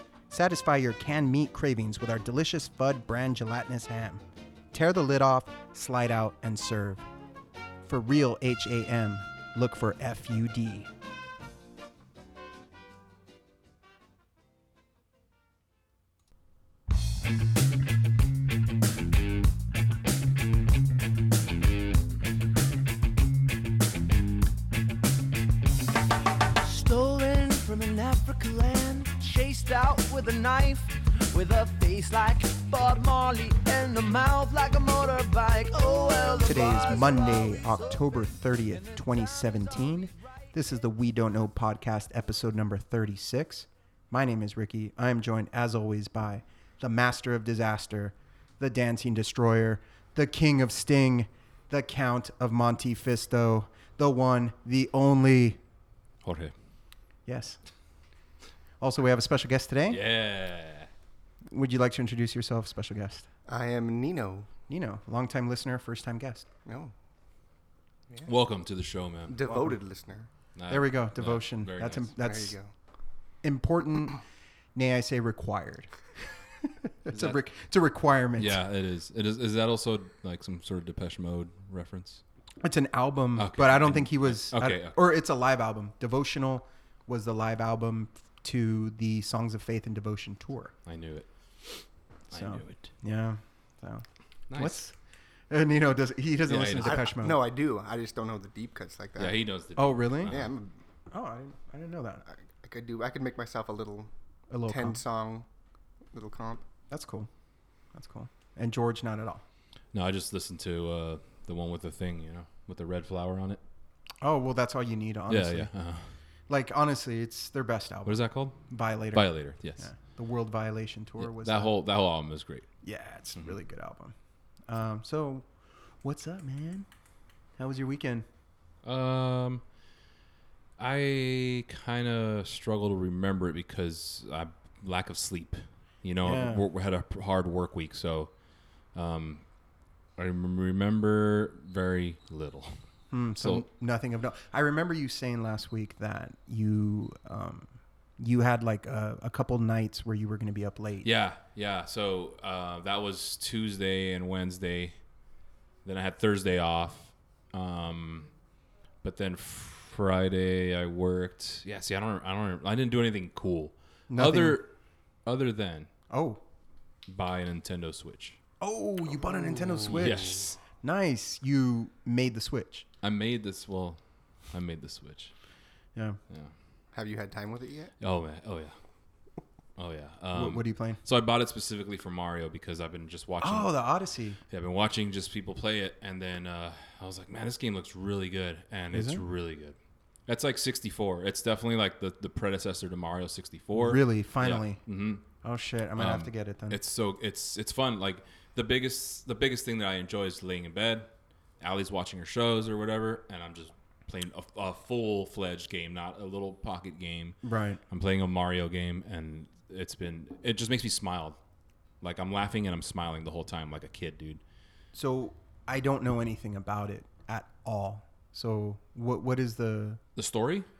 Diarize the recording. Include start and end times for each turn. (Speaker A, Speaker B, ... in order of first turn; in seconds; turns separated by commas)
Speaker A: 0.3-7.0, Speaker A: 7.8-10.9, Speaker B: 26.6-38.0, Speaker A: 36.5-55.6, Speaker B: 38.7-39.9, Speaker C: 56.2-56.5, Speaker A: 57.2-57.6, Speaker A: 58.8-60.0, Speaker C: 59.9-60.9, Speaker A: 61.5-63.3, Speaker D: 63.5-64.5, Speaker A: 64.7-66.5, Speaker D: 66.7-66.9, Speaker C: 68.2-69.4, Speaker D: 69.3-70.3, Speaker C: 70.5-72.1, Speaker A: 70.7-72.6, Speaker D: 72.2-72.7, Speaker A: 73.4-74.2, Speaker A: 74.8-78.6, Speaker C: 78.4-82.2, Speaker A: 82.6-90.7, Speaker C: 83.4-85.0, Speaker C: 90.9-91.3, Speaker C: 92.3-92.9, Speaker A: 92.3-94.9, Speaker C: 94.5-94.8, Speaker A: 95.5-97.4, Speaker C: 96.5-97.1, Speaker D: 96.8-99.4, Speaker C: 99.2-100.5, Speaker A: 99.8-100.3, Speaker D: 100.2-100.7, Speaker A: 101.1-102.2, Speaker D: 102.3-104.1, Speaker A: 104.5-105.0, Speaker D: 104.7-105.5, Speaker D: 106.1-106.6, Speaker A: 106.9-107.3, Speaker A: 107.9-109.4, Speaker C: 109.9-113.6, Speaker A: 114.2-115.7, Speaker C: 115.3-116.1, Speaker A: 116.5-121.7, Speaker C: 118.0-119.9, Speaker C: 121.2-122.7, Speaker A: 122.8-124.1, Speaker A: 124.7-125.5, Speaker A: 126.0-126.9, Speaker A: 127.6-128.3, Speaker C: 128.8-129.6, Speaker C: 130.8-138.3, Speaker A: 136.2-136.6, Speaker C: 138.9-139.4, Speaker C: 140.2-142.8, Speaker A: 143.1-151.1, Speaker C: 143.4-143.6, Speaker C: 151.0-155.0, Speaker C: 155.8-158.3, Speaker C: 159.0-164.7, Speaker A: 164.1-164.6, Speaker C: 165.2-165.9, Speaker A: 166.1-166.4, Speaker C: 167.1-168.4, Speaker A: 168.6-172.9, Speaker D: 169.7-170.1, Speaker C: 169.9-170.6, Speaker C: 173.0-174.0, Speaker C: 174.5-175.3, Speaker D: 176.9-177.9, Speaker C: 178.0-178.8, Speaker C: 179.8-183.8, Speaker A: 180.3-181.0, Speaker A: 183.4-184.4, Speaker C: 184.5-189.8, Speaker A: 188.9-189.2, Speaker C: 190.3-195.2, Speaker A: 193.7-194.8, Speaker A: 195.4-196.8, Speaker C: 196.0-211.4, Speaker A: 207.4-207.8, Speaker C: 212.0-214.4, Speaker A: 214.9-220.0, Speaker C: 220.2-220.7